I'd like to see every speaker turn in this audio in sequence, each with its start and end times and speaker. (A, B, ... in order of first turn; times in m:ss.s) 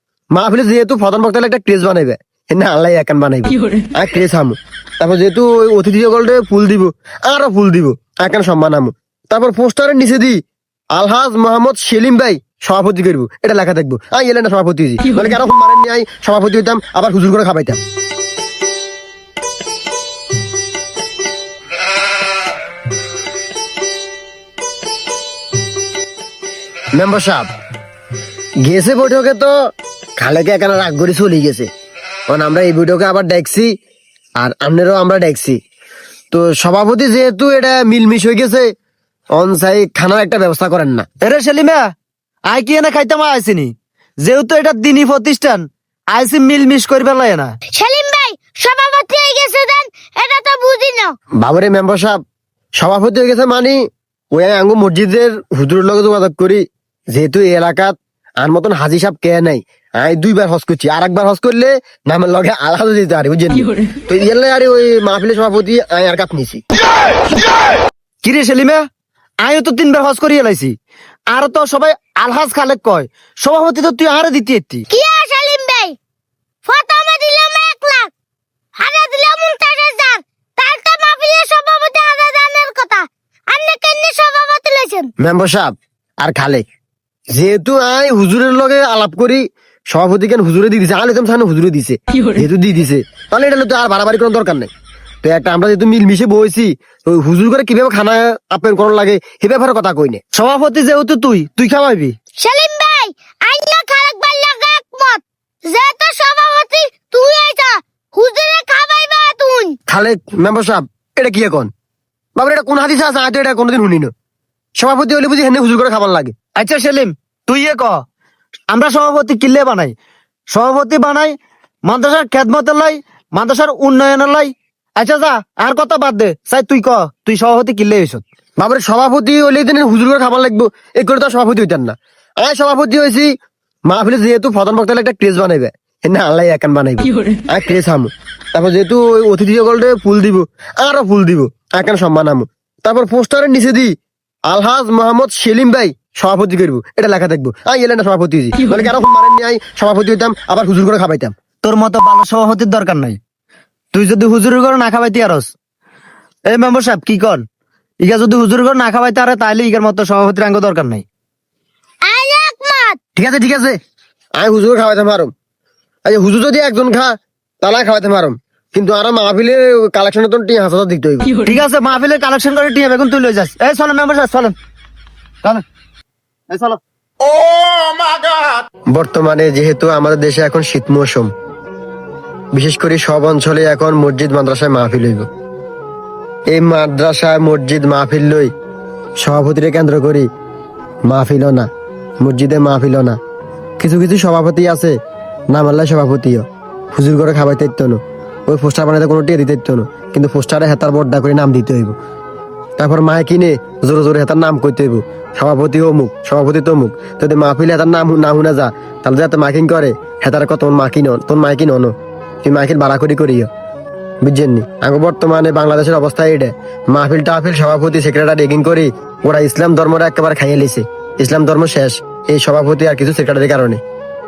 0:00.4-0:10.4 A
0:11.0-0:17.8 A
0:27.0-0:27.5 A
0:28.6-0:29.5 A
0:30.2-0:31.7 A
0:32.3-0:33.7 A
0:34.4-0:35.6 A
0:36.3-0:38.7 A
0:39.4-0:41.1 A
0:41.2-0:41.9 B
0:42.5-0:47.6 B
0:47.7-0:51.2 C
0:51.4-0:52.2 A
0:52.8-0:56.6 A
0:57.1-1:06.6 A
1:08.2-1:08.9 B
1:09.4-1:10.8 B
1:11.3-1:14.9 B
1:14.9-1:16.0 C
1:16.7-1:18.1 C
1:18.8-1:25.1 C
1:25.2-1:26.6 A
1:27.3-1:34.7 A
1:35.2-1:40.2 A
1:40.3-1:42.2 B
1:42.4-1:49.8 C
1:49.9-1:51.7 A
1:52.4-1:54.1 A
1:54.8-1:56.3 A
1:56.6-1:58.0 B
1:58.7-2:00.0 B
2:00.5-2:08.2 B
2:08.6-2:13.3 A
2:13.9-2:23.9 A
2:24.5-2:31.3 A
2:31.6-2:33.2 B
2:33.9-2:35.5 B
2:36.5-2:37.4 B
2:38.0-2:41.1 B
2:42.0-2:43.0 C
2:43.2-2:43.8 A
2:44.4-2:45.3 A
2:46.1-2:51.4 A
2:51.4-2:54.6 B
2:56.5-2:58.3 B
2:58.9-3:01.3 A
3:02.5-3:05.3 A
3:06.5-3:08.5 A
3:09.2-3:10.3 A
3:11.1-3:11.7 A
3:12.2-3:13.2 A
3:13.8-3:15.0 A
3:15.5-3:22.0 A
3:22.8-3:31.9 A
3:32.4-3:33.5 A
3:34.2-3:43.8 A